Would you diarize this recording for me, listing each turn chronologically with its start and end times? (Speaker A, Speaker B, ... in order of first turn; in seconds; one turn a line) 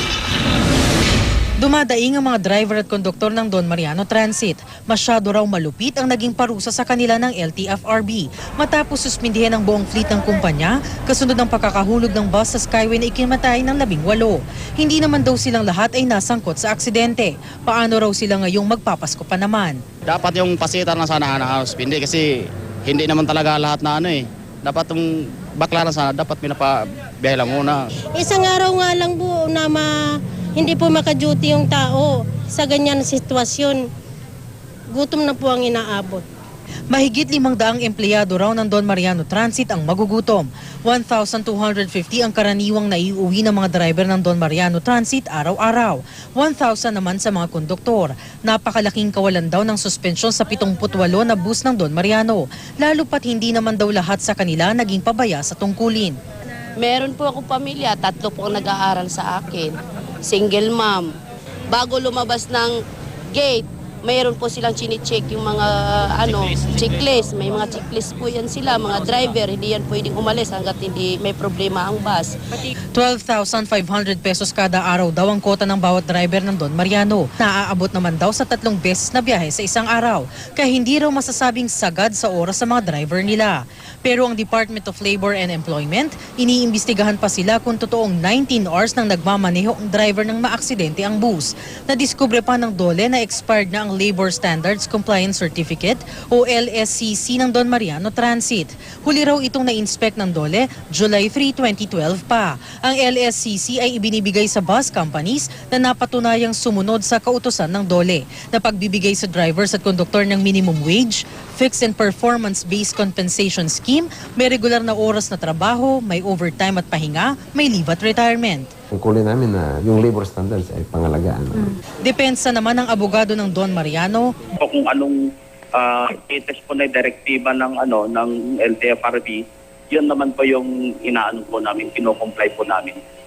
Speaker A: 1.6-19.8
Speaker B: 20.1-22.2
Speaker B: 22.9-25.1
Speaker B: 25.6-27.8
Speaker C: 28.2-29.9
Speaker C: 30.6-33.8
Speaker C: 34.9-36.2
Speaker A: 36.9-56.2
Speaker D: 56.8-61.1
Speaker D: 61.7-62.8
Speaker D: 63.3-72.3
Speaker A: 72.9-118.7
Speaker E: 118.9-121.8
Speaker A: 122.0-124.3
Speaker F: 124.6-125.1
Speaker F: 125.8-129.4
Speaker F: 129.9-133.0